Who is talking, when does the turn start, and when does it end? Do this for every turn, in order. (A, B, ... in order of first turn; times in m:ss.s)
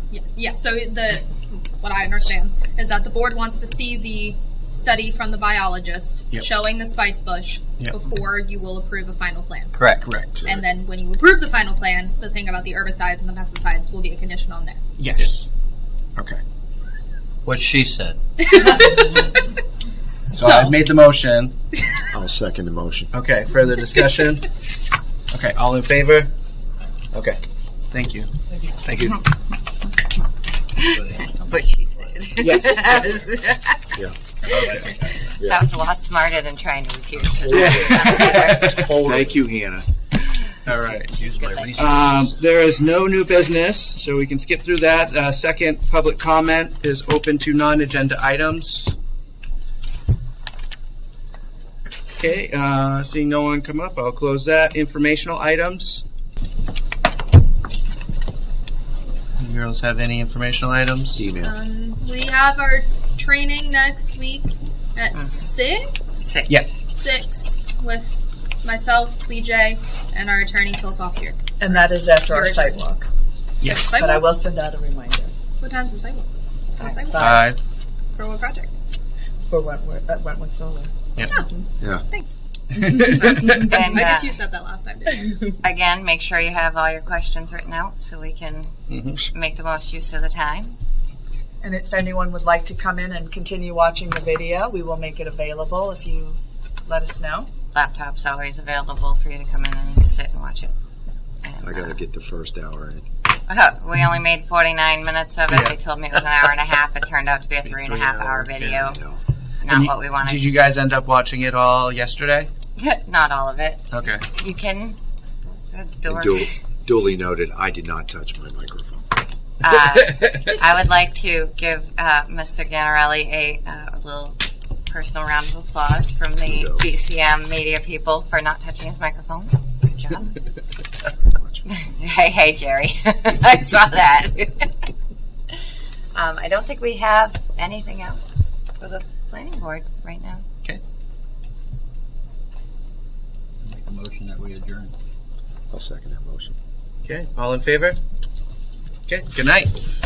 0:00.1-0:09.9 A
0:09.7-0:10.1 B
0:10.0-0:10.5 C
0:10.4-0:14.8 A
0:15.0-0:15.5 C
0:16.2-0:16.4 C
0:17.4-0:18.2 B
0:18.4-0:19.5 A
0:20.3-0:21.5 C
0:20.4-0:20.8 A
0:22.1-0:23.1 D
0:23.1-0:24.5 C
0:25.3-0:26.3 C
0:27.1-0:27.4 C
0:27.9-0:28.3 C
0:28.9-0:29.2 D
0:30.8-0:33.3 B
0:31.5-0:33.7 E
0:32.4-0:33.2 C
0:34.4-0:35.0 C
0:34.5-0:35.3 B
0:35.4-0:38.7 E
0:37.4-0:39.9 D
0:37.5-0:39.4 C
0:40.6-0:41.2 C
0:41.0-0:42.4 B
0:41.8-0:49.0 C
0:52.2-0:56.0 C
0:59.4-1:01.3 C
1:01.2-1:01.6 D
1:01.4-1:12.8 A
1:05.1-1:05.4 E
1:06.2-1:06.8 E
1:11.6-1:13.1 F
1:13.6-1:14.0 C
1:13.7-1:14.3 A
1:13.7-1:15.3 F
1:15.6-1:17.4 A
1:17.1-1:17.4 F
1:17.2-1:17.6 C
1:18.2-1:18.7 A
1:19.5-1:21.6 F
1:22.8-1:23.7 C
1:23.1-1:24.4 E
1:23.6-1:25.5 A
1:25.6-1:30.8 E
1:28.9-1:29.2 C
1:31.6-1:37.5 F
1:37.7-1:40.7 E
1:41.4-1:42.0 E
1:41.6-1:43.0 D
1:43.5-1:49.0 E
1:45.5-1:45.8 C
1:47.7-1:49.2 D
1:47.9-1:48.5 C
1:49.6-1:50.5 E
1:49.7-1:52.5 C
1:52.8-1:55.0 E
1:53.9-1:54.3 C
1:55.7-1:56.5 E
1:56.0-1:59.1 D
1:59.6-2:10.4 E
2:06.4-2:06.8 D
2:11.4-2:11.6 D
2:11.7-2:14.8 E
2:16.2-2:20.4 E
2:23.6-2:24.9 B
2:25.7-2:26.6 D
2:27.0-2:28.0 C
2:29.1-2:29.8 C